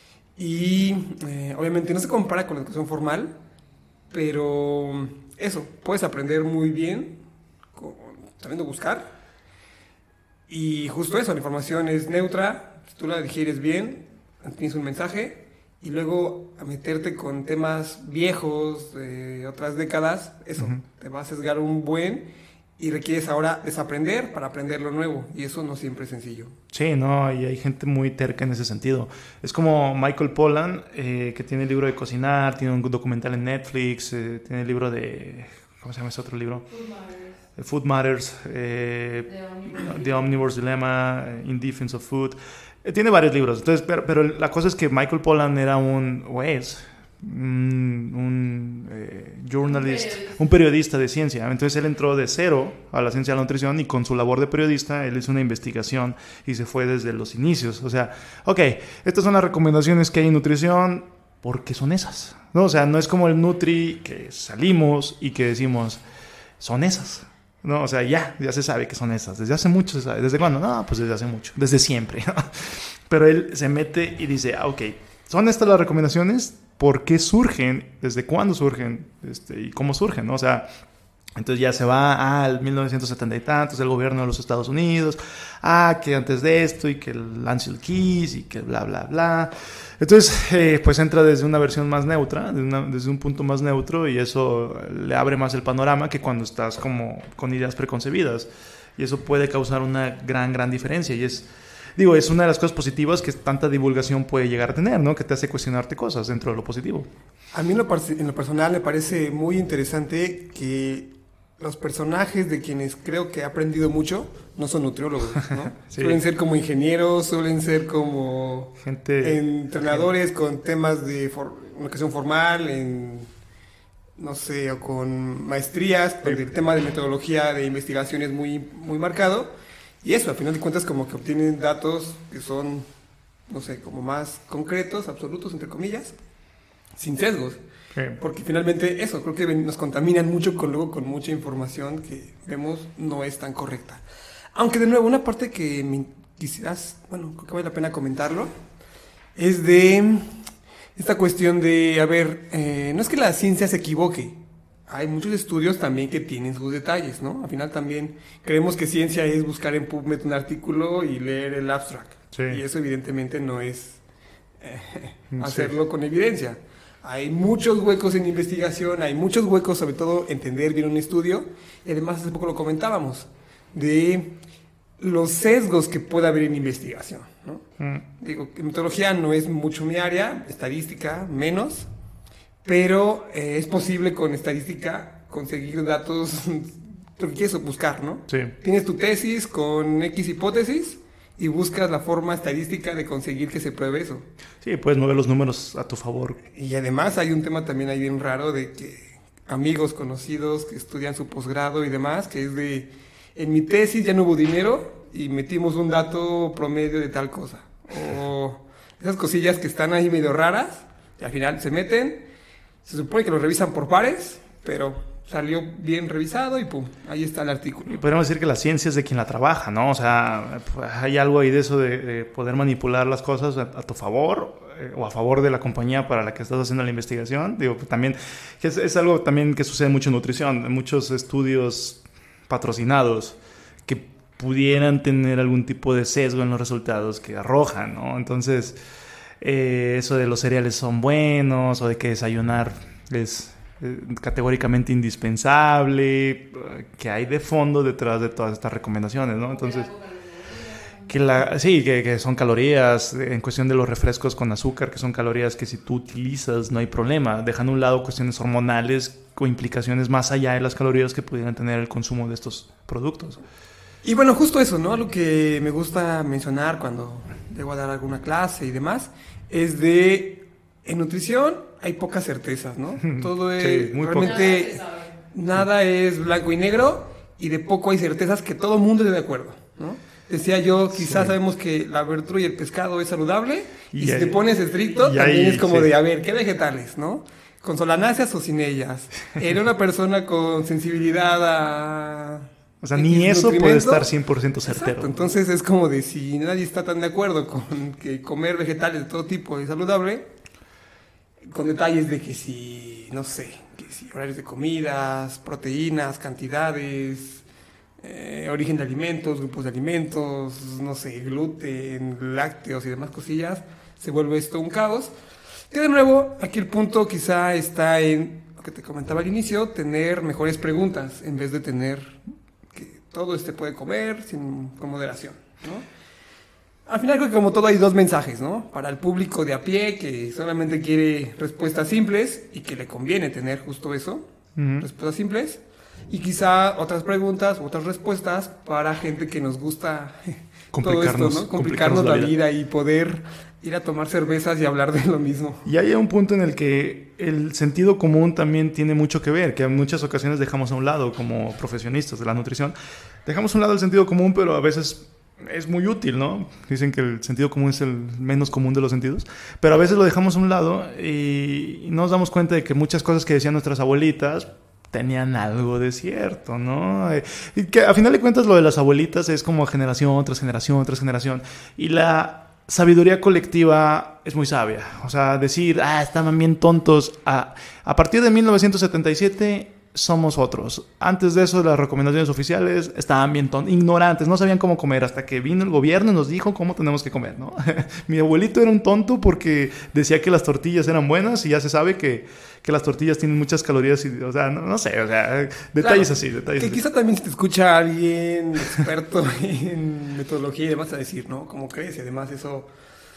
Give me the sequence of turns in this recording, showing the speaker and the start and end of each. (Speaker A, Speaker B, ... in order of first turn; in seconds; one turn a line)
Speaker A: 0.4-3.4
Speaker A: 4.1-7.2
Speaker A: 7.7-9.1
Speaker A: 10.5-26.6
Speaker B: 26.7-36.7
Speaker C: 36.7-37.4
Speaker B: 37.6-66.0
Speaker C: 39.3-40.4
Speaker C: 49.7-50.4
Speaker B: 66.6-80.7
Speaker B: 81.4-107.1
Speaker A: 107.5-123.3
Speaker B: 115.5-116.2
Speaker B: 118.8-120.0
Speaker A: 124.2-132.9
Speaker A: 133.5-136.2
Speaker A: 137.0-137.6
Speaker A: 138.2-144.0
Speaker A: 144.5-148.5
Speaker A: 149.4-150.3
Speaker A: 150.9-164.0
Speaker B: 162.3-162.6
Speaker A: 164.6-174.4
Speaker B: 165.3-165.7
Speaker A: 175.0-177.6
Speaker B: 177.8-178.0
Speaker A: 178.2-181.9
Speaker A: 182.6-194.3
Speaker B: 194.6-196.4
Speaker A: 196.5-212.3
Speaker A: 212.8-218.0
Speaker B: 217.9-238.8
Speaker B: 239.4-249.9
Speaker C: 249.4-251.4
Speaker B: 251.1-263.4
Speaker A: 264.0-294.1
Speaker B: 273.0-274.5
Speaker C: 274.2-275.1
Speaker B: 280.9-281.3
Speaker B: 283.9-284.4
Speaker B: 285.0-285.9
Speaker B: 292.8-295.3
Speaker A: 294.6-300.3
Speaker A: 301.5-307.4
Speaker A: 308.0-315.1
Speaker A: 315.7-322.2
Speaker A: 322.7-325.9
Speaker A: 326.9-334.2
Speaker B: 334.6-334.9
Speaker A: 334.8-345.7
Speaker B: 340.7-342.3
Speaker B: 345.6-396.8
Speaker A: 395.8-402.7